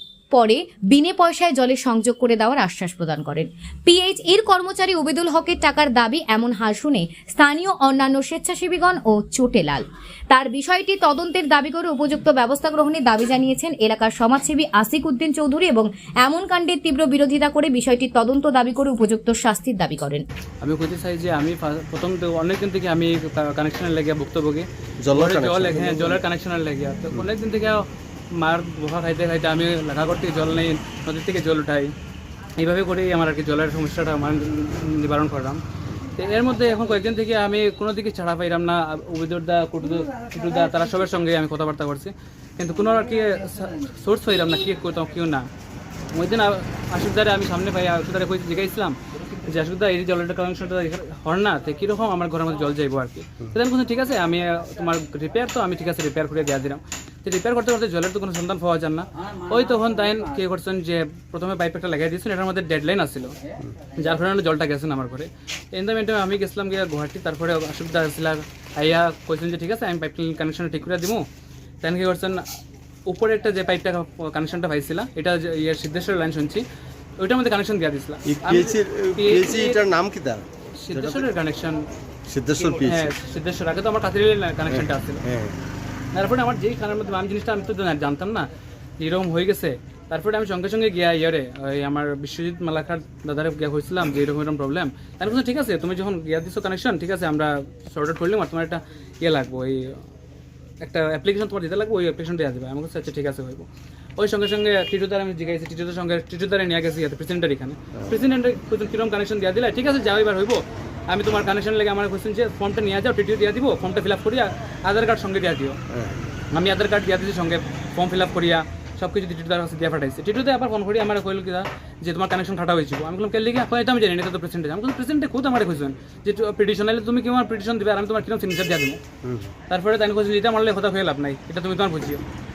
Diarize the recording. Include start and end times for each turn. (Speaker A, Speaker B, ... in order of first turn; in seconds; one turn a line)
Speaker A: 0.3-20.2
Speaker B: 20.6-27.8
Speaker C: 25.0-26.2
Speaker B: 28.4-31.9
Speaker B: 32.6-35.6
Speaker B: 36.2-45.5
Speaker B: 46.1-49.0
Speaker B: 49.5-63.3
Speaker B: 64.0-71.2
Speaker B: 71.8-72.4
Speaker B: 73.1-76.6
Speaker B: 77.2-79.8
Speaker C: 78.3-81.3
Speaker B: 80.8-81.8
Speaker C: 82.3-83.1
Speaker B: 82.6-85.2
Speaker C: 84.7-85.6
Speaker B: 86.1-88.5
Speaker B: 89.0-100.0
Speaker B: 100.8-103.7
Speaker B: 104.2-115.8
Speaker C: 115.9-116.2
Speaker B: 116.5-129.0
Speaker C: 129.2-129.5
Speaker B: 129.7-132.2